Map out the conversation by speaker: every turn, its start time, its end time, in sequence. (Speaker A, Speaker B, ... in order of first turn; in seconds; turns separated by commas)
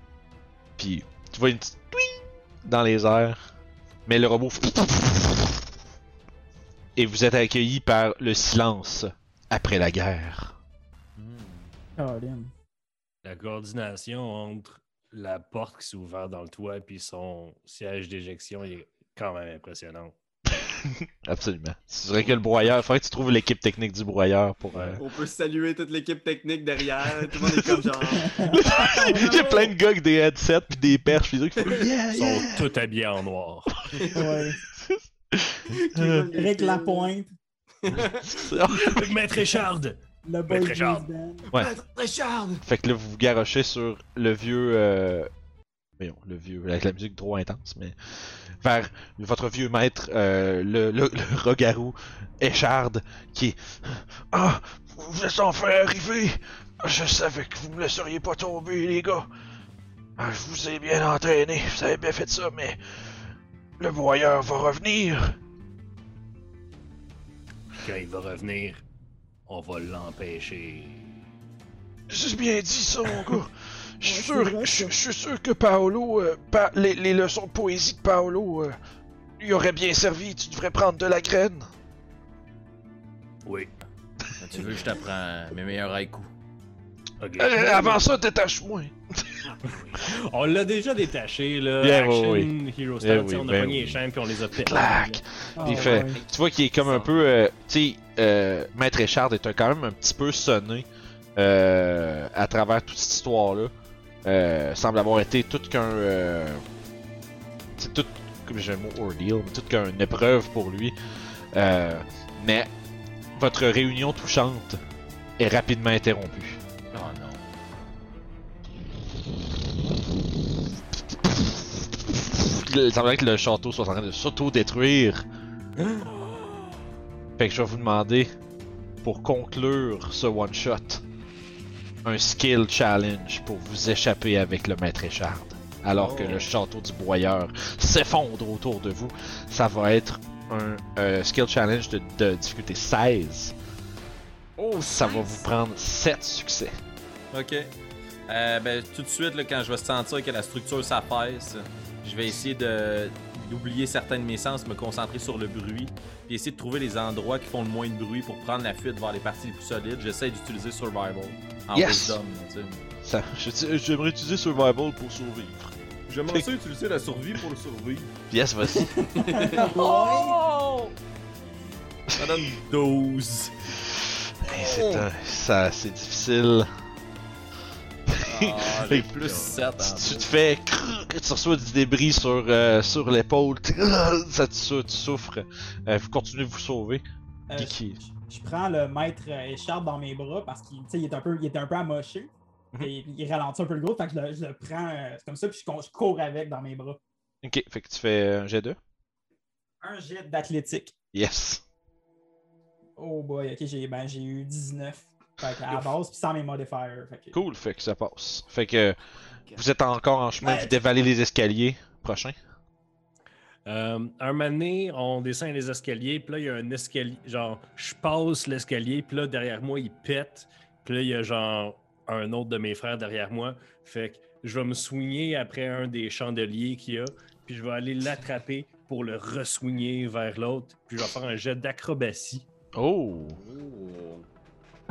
Speaker A: 0.8-3.4, Speaker A: 4.1-5.7, Speaker A: 7.0-10.6, Speaker B: 11.2-11.7, Speaker C: 12.0-12.5, Speaker D: 13.2-20.1, Speaker A: 20.6-25.0, Speaker D: 24.7-25.0, Speaker E: 25.0-29.6, Speaker A: 27.4-27.8, Speaker C: 28.2-29.7, Speaker A: 28.4-32.7, Speaker D: 32.1-33.8, Speaker A: 33.8-34.2, Speaker E: 33.9-34.4, Speaker C: 34.1-34.6, Speaker A: 34.7-36.3, Speaker E: 35.7-37.1, Speaker C: 36.3-37.3, Speaker E: 37.8-38.5, Speaker A: 38.0-39.2, Speaker D: 38.7-41.1, Speaker C: 40.2-41.5, Speaker E: 41.5-42.6, Speaker A: 42.6-45.3, Speaker A: 46.0-59.3, Speaker A: 60.2-62.8, Speaker A: 63.8-65.4, Speaker D: 67.8-68.8, Speaker D: 69.5-71.2, Speaker A: 72.1-78.8, Speaker C: 74.0-75.0, Speaker A: 79.4-81.7, Speaker D: 83.5-83.8, Speaker B: 84.4-86.3, Speaker D: 87.2-88.1, Speaker A: 87.4-89.5, Speaker D: 89.6-95.2, Speaker A: 91.8-94.0, Speaker A: 94.5-103.7, Speaker C: 95.6-96.2, Speaker E: 95.6-96.3, Speaker E: 96.8-97.1, Speaker A: 104.2-106.6, Speaker A: 107.8-111.0, Speaker A: 111.5-112.7, Speaker A: 113.4-114.8, Speaker A: 115.4-116.6, Speaker B: 116.9-117.4, Speaker A: 121.2-125.2, Speaker A: 127.4-128.3, Speaker A: 129.0-131.0, Speaker A: 132.0-143.5, Speaker B: 135.9-136.5, Speaker E: 144.6-145.5, Speaker A: 144.6-146.7, Speaker B: 147.3-147.7, Speaker B: 148.3-162.8, Speaker A: 161.7-162.2, Speaker A: 163.0-165.7, Speaker B: 166.1-168.1, Speaker A: 168.3-168.9, Speaker C: 168.8-170.4, Speaker E: 169.1-170.2, Speaker B: 169.6-170.9, Speaker B: 172.2-173.5, Speaker A: 174.4-176.7, Speaker B: 174.6-175.1, Speaker A: 178.1-187.0, Speaker B: 178.2-180.3, Speaker C: 187.5-197.0, Speaker A: 187.6-188.0, Speaker A: 197.4-198.8, Speaker C: 199.8-200.9, Speaker A: 201.1-201.6, Speaker C: 203.0-207.4, Speaker A: 207.3-209.0, Speaker A: 209.6-212.4, Speaker C: 210.4-210.7, Speaker D: 213.7-232.5, Speaker A: 232.8-233.4, Speaker E: 233.3-234.3